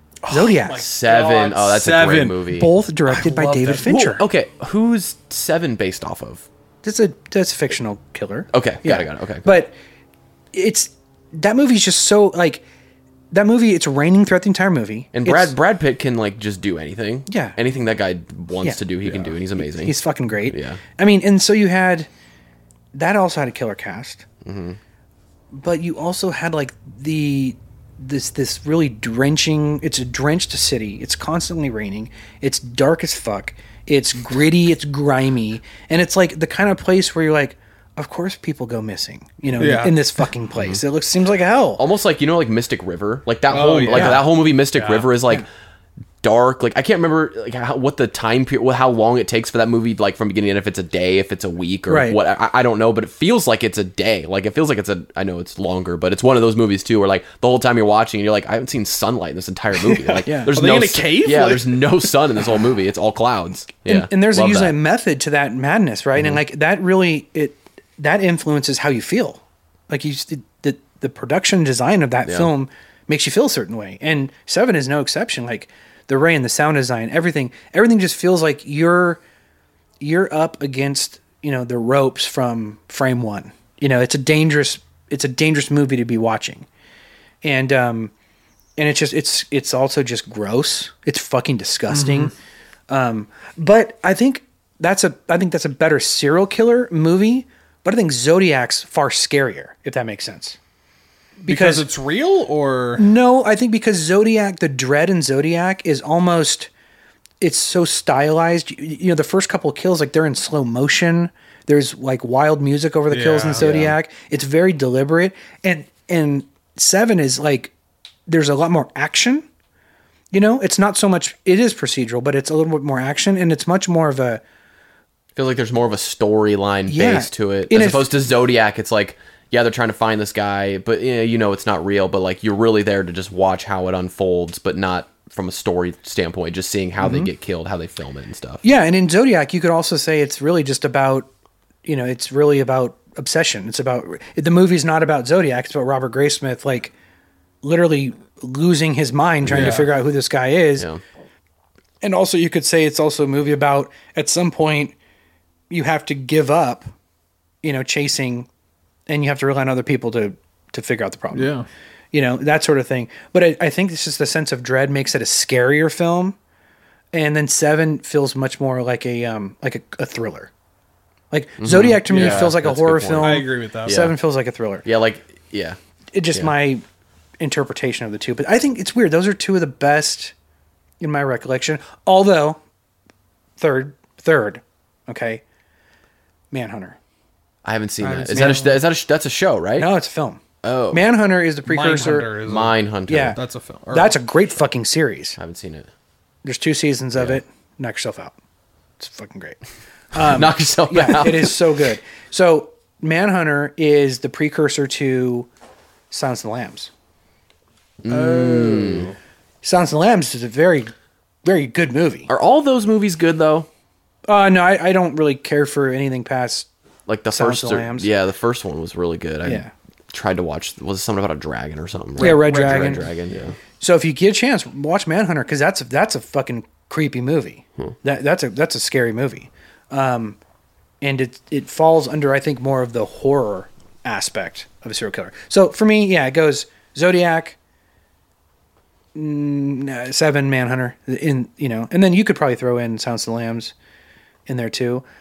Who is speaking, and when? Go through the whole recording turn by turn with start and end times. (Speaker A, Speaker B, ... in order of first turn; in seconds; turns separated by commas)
Speaker A: 0.3-2.4, Speaker B: 0.3-0.8, Speaker C: 0.8-2.7, Speaker B: 2.5-4.2, Speaker A: 3.2-3.8, Speaker C: 3.6-6.5, Speaker B: 6.8-9.7, Speaker C: 8.5-9.5, Speaker B: 10.5-12.6, Speaker B: 13.3-15.5, Speaker C: 15.1-19.9, Speaker B: 17.3-17.6, Speaker A: 19.1-19.3, Speaker B: 19.6-22.1, Speaker C: 20.5-20.8, Speaker B: 22.9-24.2, Speaker C: 24.4-24.8, Speaker B: 25.5-41.9, Speaker A: 39.6-40.3, Speaker C: 40.6-40.8, Speaker C: 41.8-45.5, Speaker A: 43.5-45.1, Speaker B: 43.9-44.2, Speaker C: 46.2-64.8, Speaker B: 51.9-52.2, Speaker A: 59.8-62.0, Speaker B: 60.2-60.5, Speaker B: 63.9-79.2, Speaker C: 72.2-72.5, Speaker B: 80.0-86.7, Speaker B: 87.4-88.1, Speaker B: 88.8-92.3, Speaker A: 91.9-92.3, Speaker B: 92.9-100.6, Speaker B: 101.4-101.9, Speaker A: 101.5-103.0, Speaker B: 103.0-106.7, Speaker B: 107.4-117.7, Speaker A: 113.1-113.8, Speaker C: 113.6-114.0, Speaker B: 118.3-119.5, Speaker B: 120.3-124.4, Speaker C: 125.3-138.6, Speaker B: 126.9-128.1, Speaker B: 137.0-137.3, Speaker B: 138.6-141.3, Speaker B: 141.8-146.9, Speaker B: 147.6-150.9, Speaker C: 149.4-149.8, Speaker A: 149.5-149.9, Speaker B: 152.0-154.9, Speaker B: 155.7-156.9, Speaker B: 157.6-158.5, Speaker B: 159.1-161.5, Speaker A: 161.3-161.7, Speaker B: 162.1-166.4, Speaker B: 167.1-170.5, Speaker B: 171.3-174.8, Speaker C: 171.6-174.2, Speaker A: 172.1-172.6, Speaker A: 173.2-174.0, Speaker C: 174.8-175.8, Speaker B: 176.1-176.8, Speaker B: 177.4-180.3, Speaker B: 181.0-182.6, Speaker B: 183.6-185.4, Speaker B: 186.5-187.0, Speaker C: 187.6-189.9, Speaker B: 188.0-188.8, Speaker A: 188.3-188.6, Speaker B: 189.8-192.3, Speaker C: 190.6-191.0, Speaker A: 191.7-192.8, Speaker C: 192.4-193.4, Speaker B: 193.1-193.4, Speaker A: 193.3-194.2, Speaker B: 193.9-195.4, Speaker C: 195.4-195.9, Speaker B: 196.4-198.4, Speaker B: 199.0-199.6, Speaker B: 200.1-205.5, Speaker C: 200.2-201.6, Speaker B: 206.1-206.9, Speaker C: 208.0-209.1, Speaker B: 208.1-209.0, Speaker A: 208.3-209.1, Speaker B: 209.6-210.9, Speaker B: 211.4-212.3, Speaker C: 212.3-213.7, Speaker B: 214.3-216.7, Speaker C: 217.1-223.6, Speaker B: 217.3-218.1, Speaker B: 219.4-219.7, Speaker A: 222.2-223.0, Speaker B: 222.2-223.1, Speaker B: 223.8-230.4, Speaker B: 231.0-237.6, Speaker B: 239.2-243.7, Speaker B: 244.5-245.0